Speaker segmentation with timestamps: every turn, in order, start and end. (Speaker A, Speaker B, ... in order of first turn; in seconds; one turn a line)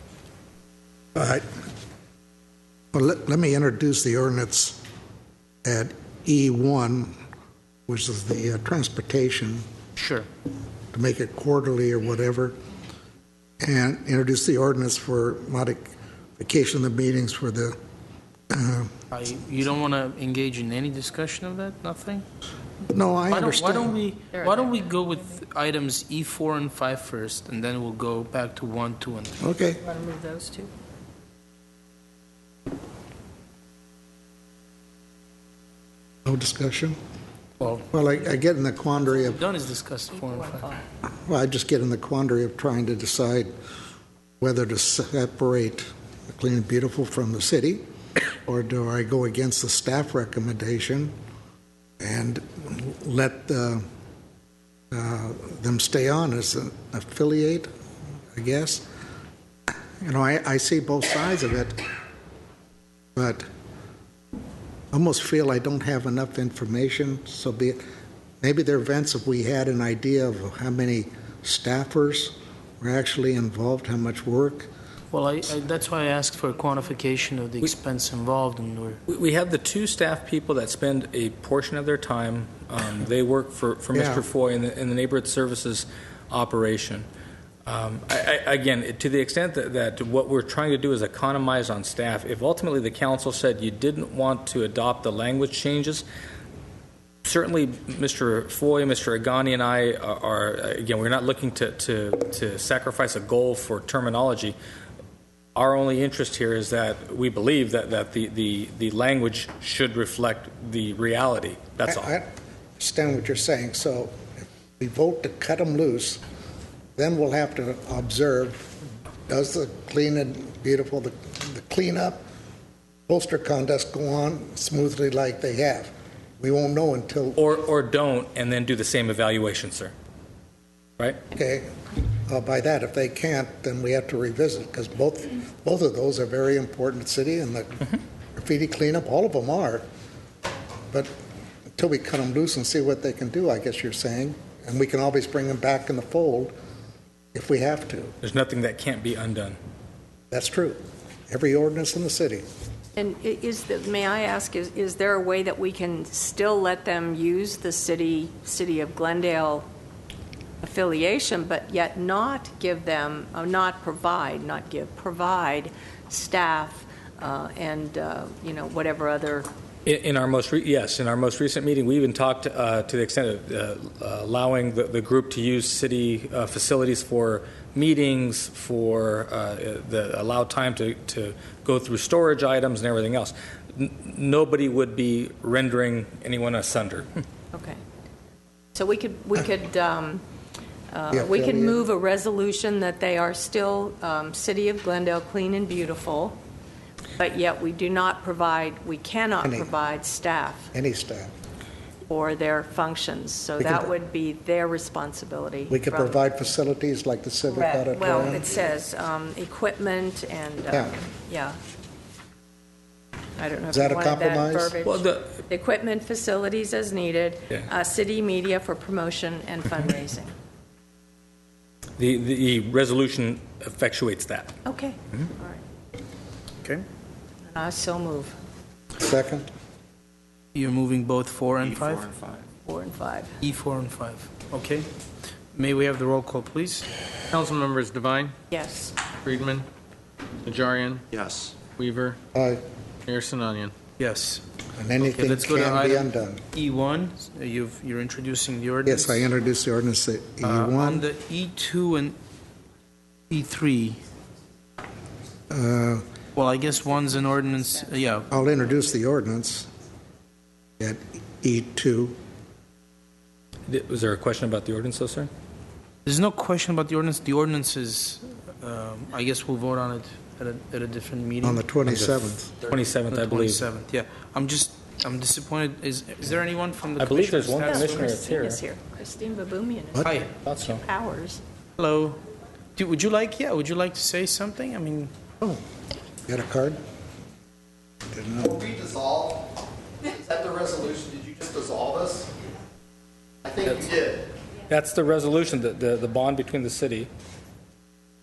Speaker A: 1.1-1.4
Speaker A: 2.9-4.8
Speaker A: 5.6-7.2
Speaker A: 7.9-9.7
Speaker B: 9.9-10.3
Speaker A: 10.9-12.6
Speaker A: 13.6-17.8
Speaker A: 18.5-18.9
Speaker B: 19.1-22.2
Speaker A: 22.9-24.0
Speaker B: 23.3-29.5
Speaker A: 29.4-29.8
Speaker C: 29.8-30.7
Speaker A: 36.2-37.0
Speaker B: 37.6-37.8
Speaker A: 37.9-39.4
Speaker B: 39.0-40.8
Speaker C: 40.5-40.8
Speaker A: 41.2-43.5
Speaker A: 44.4-47.8
Speaker A: 48.4-51.1
Speaker A: 52.0-53.8
Speaker A: 54.9-57.7
Speaker A: 58.3-58.9
Speaker A: 60.0-61.8
Speaker A: 63.1-63.5
Speaker A: 64.9-67.8
Speaker A: 68.4-74.7
Speaker B: 75.1-79.0
Speaker D: 79.1-87.1
Speaker A: 83.9-84.2
Speaker D: 87.7-96.0
Speaker D: 97.2-104.5
Speaker D: 105.5-112.1
Speaker A: 111.9-114.2
Speaker A: 114.8-116.2
Speaker A: 117.0-118.7
Speaker A: 119.3-122.2
Speaker A: 123.1-127.4
Speaker D: 127.3-129.9
Speaker A: 131.3-139.8
Speaker A: 141.8-146.5
Speaker A: 147.3-148.1
Speaker D: 148.2-149.6
Speaker A: 150.3-152.4
Speaker C: 152.9-159.7
Speaker C: 160.6-169.5
Speaker D: 169.8-187.1
Speaker C: 187.5-187.8
Speaker C: 188.7-190.2
Speaker C: 190.9-196.4
Speaker A: 191.1-191.8
Speaker C: 197.2-200.7
Speaker A: 199.4-199.7
Speaker A: 200.7-201.3
Speaker C: 202.1-206.2
Speaker A: 203.6-203.9
Speaker A: 205.7-208.5
Speaker C: 207.5-211.6
Speaker C: 213.3-220.3
Speaker A: 213.7-214.7
Speaker D: 214.8-215.3
Speaker D: 222.0-224.5
Speaker C: 224.6-225.6
Speaker C: 227.5-228.3
Speaker A: 229.0-229.5
Speaker B: 230.5-232.1
Speaker C: 232.6-233.3
Speaker B: 233.4-234.9
Speaker B: 235.5-236.9
Speaker E: 237.3-238.3
Speaker C: 238.5-239.0
Speaker E: 239.2-239.7
Speaker E: 240.4-241.1
Speaker F: 241.1-241.7
Speaker E: 241.7-242.2
Speaker A: 242.3-242.6
Speaker E: 243.1-243.7
Speaker B: 244.0-244.4
Speaker A: 244.8-246.4
Speaker B: 245.0-249.3
Speaker A: 248.8-251.1
Speaker B: 250.4-252.2
Speaker B: 253.3-254.0
Speaker A: 255.5-256.0
Speaker B: 256.3-258.3
Speaker C: 256.6-258.7
Speaker A: 258.3-259.7
Speaker A: 260.8-262.2
Speaker D: 263.7-265.3
Speaker B: 266.0-271.6
Speaker A: 271.4-272.5
Speaker D: 271.9-273.6
Speaker B: 273.0-278.1
Speaker D: 277.0-278.6
Speaker C: 277.6-281.4
Speaker D: 280.4-280.8
Speaker B: 281.8-282.2
Speaker B: 282.8-285.1
Speaker A: 286.3-286.8
Speaker A: 288.1-288.7
Speaker F: 288.5-289.5
Speaker F: 290.0-292.3
Speaker F: 293.4-294.2
Speaker D: 293.6-294.1
Speaker D: 294.7-297.1